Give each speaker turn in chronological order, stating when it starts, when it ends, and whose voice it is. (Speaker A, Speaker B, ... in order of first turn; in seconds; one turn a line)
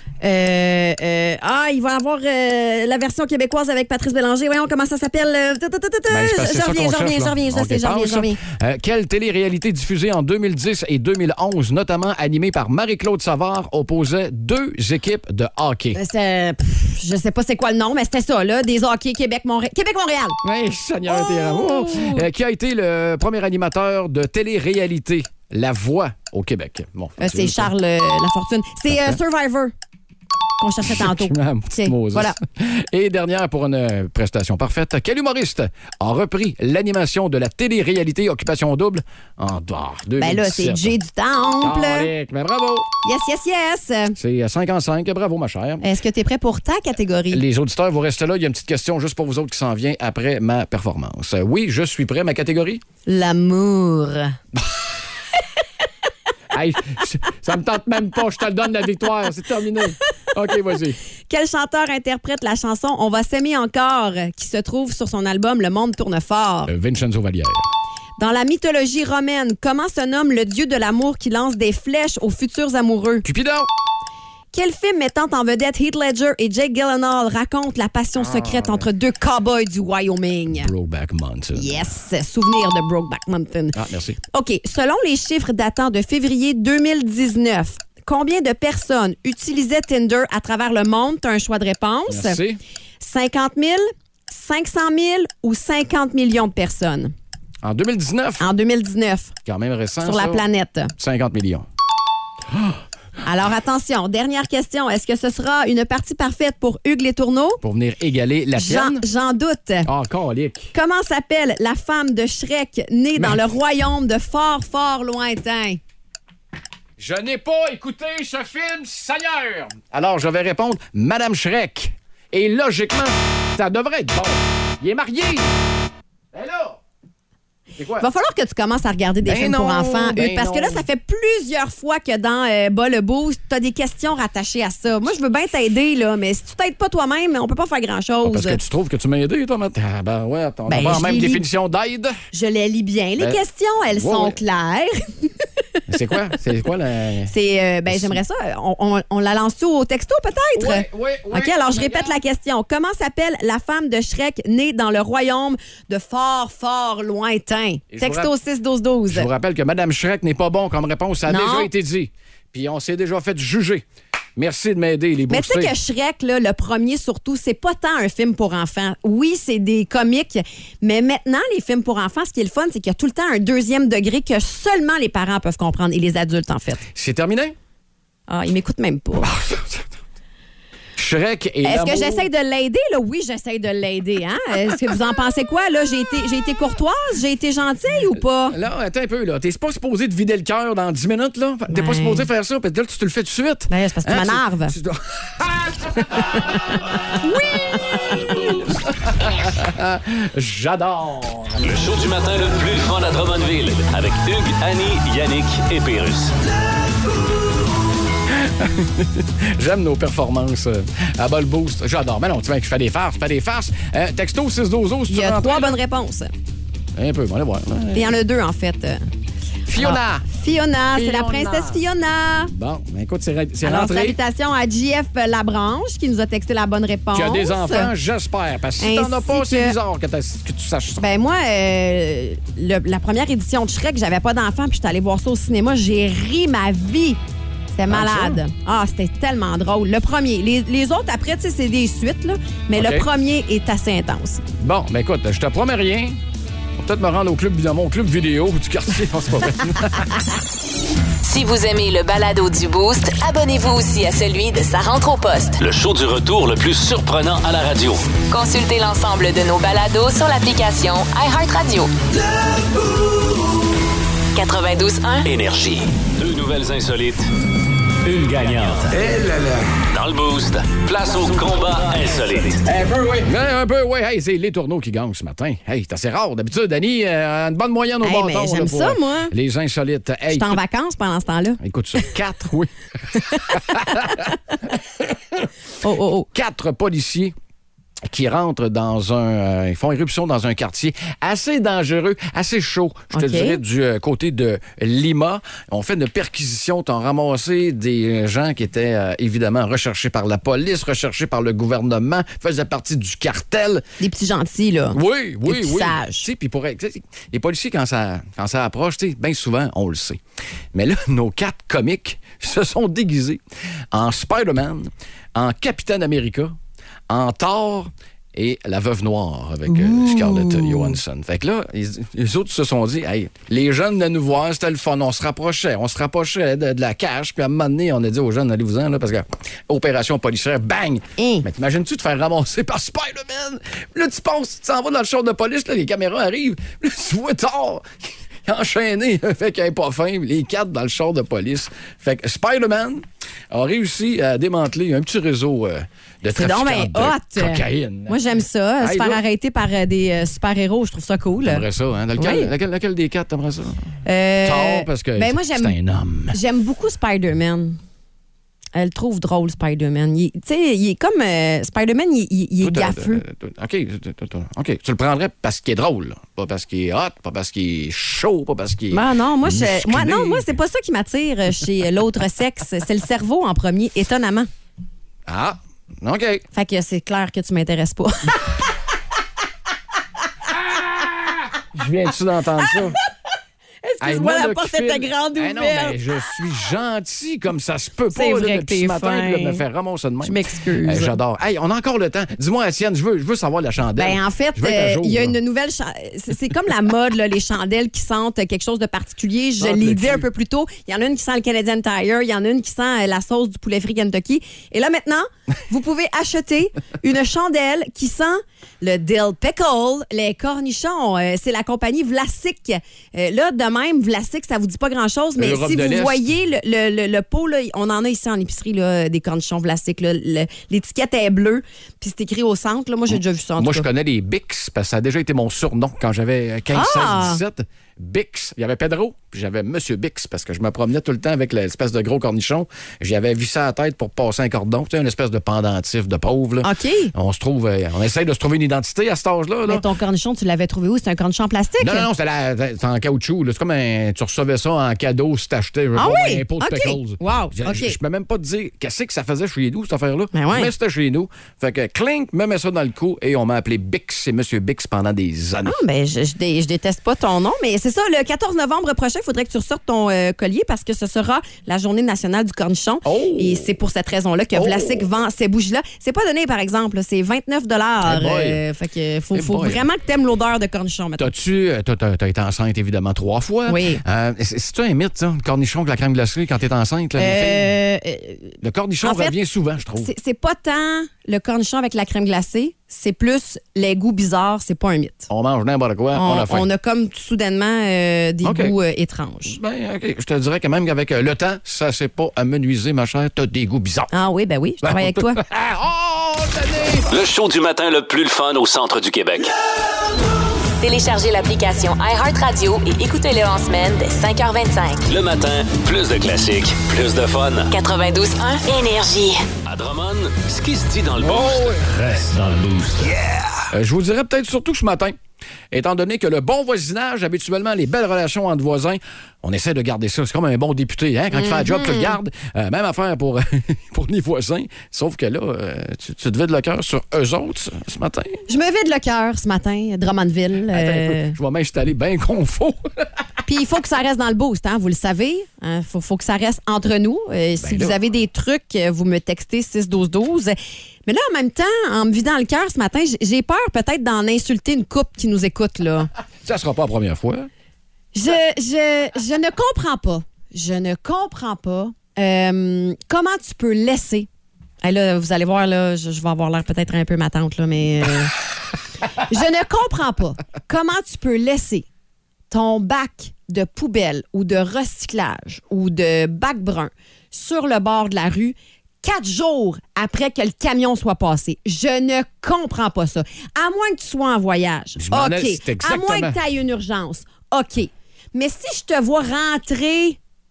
Speaker A: 0.2-8.4
Speaker B: 6.1-16.0
Speaker A: 15.9-20.4
Speaker B: 20.4-27.7
Speaker A: 21.1-22.3
Speaker A: 27.2-29.7
Speaker B: 28.9-29.2
Speaker A: 30.6-32.4
Speaker B: 30.8-40.9
Speaker A: 40.2-42.1
Speaker B: 41.6-42.9
Speaker A: 43.0-44.2
Speaker B: 44.1-45.8
Speaker A: 45.8-47.4
Speaker B: 47.3-52.8
Speaker A: 53.0-54.4
Speaker B: 54.5-54.8
Speaker B: 56.5-61.0
Speaker A: 61.3-66.7
Speaker B: 66.7-67.7
Speaker A: 68.2-73.2
Speaker B: 73.2-73.7
Speaker A: 74.5-80.7
Speaker B: 78.2-78.8
Speaker B: 80.5-81.9
Speaker A: 81.5-83.8
Speaker B: 83.7-84.2
Speaker A: 84.3-92.4
Speaker B: 92.1-92.6
Speaker A: 93.0-97.1
Speaker B: 97.6-98.5
Speaker A: 98.4-99.3
Speaker B: 99.4-100.4
Speaker A: 100.0-100.9
Speaker B: 101.0-101.7
Speaker A: 103.2-107.6
Speaker B: 107.6-109.0
Speaker A: 108.5-109.9
Speaker B: 109.8-110.7
Speaker A: 110.7-115.8
Speaker B: 113.1-113.4
Speaker B: 117.0-125.5
Speaker B: 126.3-126.8
Speaker B: 127.8-128.1
Speaker A: 128.0-138.6
Speaker B: 129.2-130.8
Speaker B: 138.2-142.2
Speaker A: 140.7-141.4
Speaker A: 142.3-145.8
Speaker B: 143.9-144.4
Speaker B: 145.9-147.3
Speaker A: 147.3-159.3
Speaker B: 147.9-148.2
Speaker B: 150.6-152.2
Speaker B: 157.9-158.3
Speaker B: 159.1-163.8
Speaker A: 161.3-161.7
Speaker B: 164.4-165.7
Speaker A: 165.3-176.8
Speaker B: 176.9-177.5
Speaker A: 178.3-179.3
Speaker B: 179.2-180.0
Speaker B: 181.0-182.2
Speaker A: 181.6-188.6
Speaker B: 188.2-196.8
Speaker A: 191.7-192.3
Speaker A: 193.7-194.7
Speaker A: 197.2-198.5
Speaker B: 198.7-201.8
Speaker C: 201.6-206.3
Speaker B: 208.3-215.8
Speaker A: 215.1-216.3
Speaker B: 216.9-218.1
Speaker A: 217.9-219.1
Speaker B: 219.7-220.3
Speaker A: 219.8-222.5
Speaker B: 220.9-221.8
Speaker B: 222.5-224.2
Speaker A: 223.6-227.9
Speaker B: 227.1-231.0
Speaker A: 228.8-229.8
Speaker A: 231.0-237.2
Speaker A: 237.7-244.4
Speaker B: 237.9-238.4
Speaker B: 242.8-243.1
Speaker B: 244.6-246.2
Speaker B: 246.8-250.2
Speaker D: 251.2-255.6
Speaker C: 255.6-258.1
Speaker D: 258.3-261.9
Speaker D: 264.3-265.3
Speaker C: 265.2-267.3
Speaker C: 268.0-269.2
Speaker B: 268.9-269.7
Speaker C: 269.8-273.1
Speaker B: 273.1-280.6
Speaker A: 278.0-279.3
Speaker A: 280.3-282.1
Speaker B: 281.6-285.5
Speaker A: 283.1-284.3
Speaker A: 285.8-286.3
Speaker B: 286.3-287.3
Speaker B: 288.1-303.9
Speaker A: 293.1-293.6
Speaker A: 304.0-306.3
Speaker B: 304.9-310.2
Speaker B: 310.7-316.6
Speaker B: 317.1-348.2
Speaker A: 319.7-320.9
Speaker A: 331.2-331.4
Speaker A: 346.3-351.6
Speaker B: 348.8-349.2
Speaker B: 351.4-356.4
Speaker A: 352.2-352.5
Speaker A: 354.0-355.7
Speaker A: 356.3-357.8
Speaker A: 358.7-363.2
Speaker B: 362.6-370.5
Speaker A: 368.9-374.5
Speaker B: 375.3-376.4
Speaker A: 376.5-378.6
Speaker B: 380.6-383.0
Speaker A: 383.8-386.0
Speaker B: 384.0-395.4
Speaker A: 388.1-389.6
Speaker A: 390.2-391.1
Speaker A: 394.0-423.9
Speaker B: 399.6-400.3
Speaker B: 415.4-416.2
Speaker B: 423.1-439.8
Speaker A: 426.7-427.4
Speaker A: 436.6-437.1
Speaker A: 439.6-442.1
Speaker B: 441.8-455.8
Speaker A: 445.9-448.0
Speaker A: 450.3-450.7
Speaker A: 455.6-471.3
Speaker B: 463.0-463.7
Speaker B: 464.5-465.0
Speaker B: 468.0-468.6
Speaker B: 469.3-469.9
Speaker B: 471.2-477.7
Speaker A: 473.7-474.0
Speaker A: 477.2-479.3
Speaker B: 478.6-480.1
Speaker A: 479.9-485.3
Speaker B: 485.3-486.7
Speaker A: 486.1-489.6
Speaker B: 488.4-488.7
Speaker B: 489.4-494.1
Speaker A: 494.1-495.4
Speaker B: 494.8-497.1
Speaker C: 497.1-499.5
Speaker D: 500.8-505.0
Speaker C: 505.1-507.7
Speaker D: 507.7-509.4
Speaker C: 509.6-513.6
Speaker B: 511.2-512.9
Speaker B: 513.7-515.2
Speaker B: 515.7-528.4
Speaker A: 521.3-522.2
Speaker A: 528.5-531.4
Speaker B: 530.7-533.2
Speaker A: 533.5-546.1
Speaker B: 537.6-538.0
Speaker B: 546.4-547.5
Speaker A: 548.1-554.3
Speaker A: 554.8-558.4
Speaker A: 559.1-561.9
Speaker A: 562.5-580.2
Speaker B: 575.0-576.4